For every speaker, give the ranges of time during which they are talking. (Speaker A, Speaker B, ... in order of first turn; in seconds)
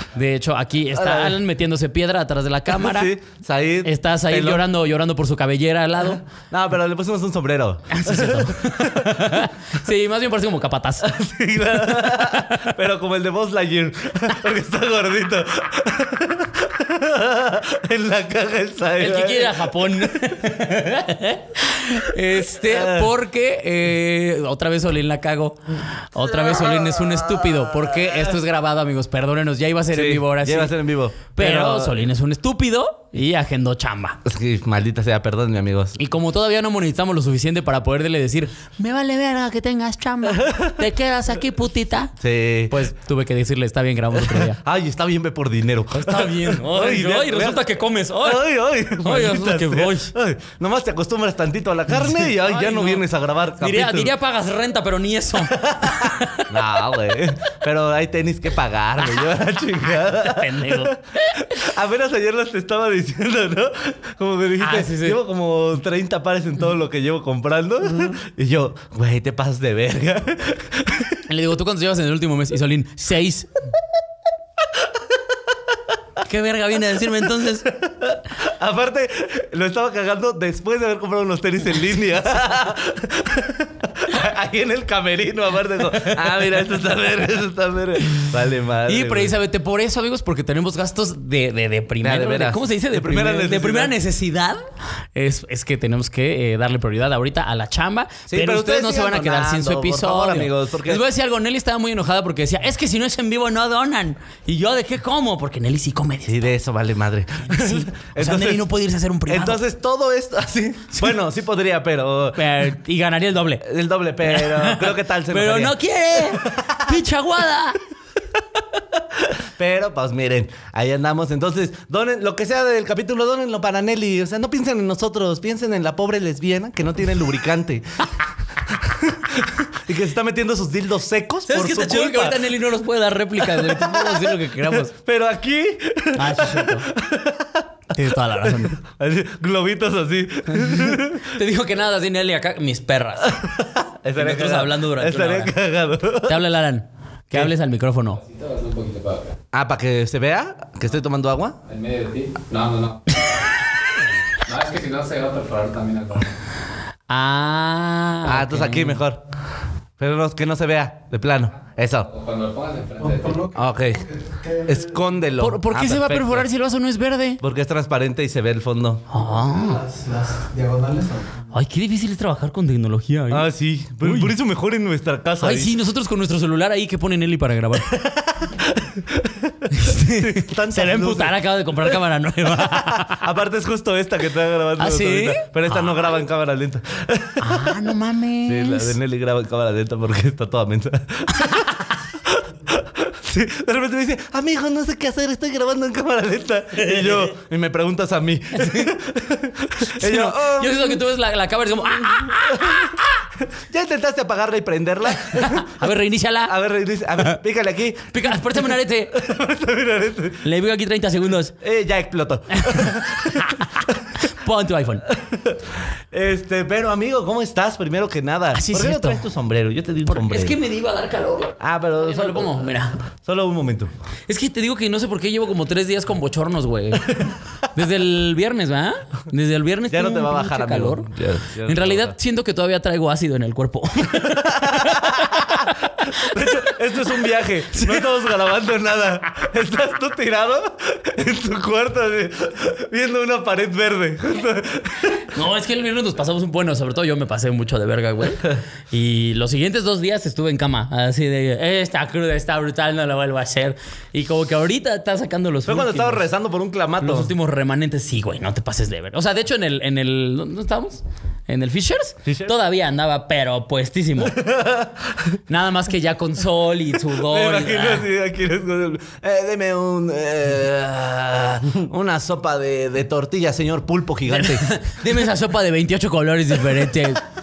Speaker A: 0.1-3.1, 3.8-6.2, 7.9-11.1, 11.7-12.7, 19.0-30.8, 31.4-34.2, 36.0-42.1, 42.7-44.6, 45.9-48.5, 49.0-50.1, 52.0-53.0, 53.6-56.8, 60.0-61.5, 64.6-65.2, 71.2-73.5, 76.2-77.7, 88.9-94.6, 95.1-106.5, 107.5-109.6, 112.3-113.7, 114.2-117.8, 131.5-134.9, 136.1-136.9, 137.9-138.8, 140.5-143.4, 144.2-145.6, 146.2-148.2, 157.1-159.0, 165.4-167.4, 169.1-169.9, 171.5-173.5, 174.0-174.3, 175.4-177.9, 179.7-183.2, 184.8-186.1, 187.4-188.9, 191.3-191.7, 196.8-197.3, 198.5-198.9, 199.8-203.2, 205.2-206.5, 208.1-209.2, 210.4-211.6, 212.5-215.1, 218.5-219.2, 220.1-222.9, 224.3-231.1, 231.7-236.8, 237.7-238.0, 245.3-256.3, 257.0-264.4, 265.5-268.1, 274.3-277.2
Speaker B: 0.9-1.4, 2.7-4.7, 6.3-9.5, 11.0-20.4, 22.5-23.1, 26.3-28.3, 29.9-32.0, 34.2-36.0, 40.3-40.8, 42.2-42.8, 44.1-54.1, 55.5-71.2, 77.7-89.3, 92.0-93.9, 98.3-101.0, 106.2-108.7, 109.3-112.5, 113.6-117.0, 119.1-128.0, 128.6-132.5, 133.4-141.3, 143.2-146.4, 149.5-151.6, 158.2-159.2, 160.0-162.1, 163.5-164.1, 164.6-166.5, 167.4-169.0, 173.3-175.7, 177.9-181.9, 182.5-187.8, 188.4-201.0, 202.1-202.9, 203.7-205.7, 206.4-210.5, 211.6-214.0, 215.1-215.6, 216.1-220.6, 221.6-222.7, 223.2-223.9, 229.9-232.1, 234.2-245.3, 255.7-257.3, 262.2-262.5, 264.2-265.3, 267.1-275.2
Speaker C: 148.2-149.4, 151.7-153.4, 154.4-156.3, 162.1-163.5
Speaker D: 163.2-163.6, 164.3-164.8, 169.5-171.4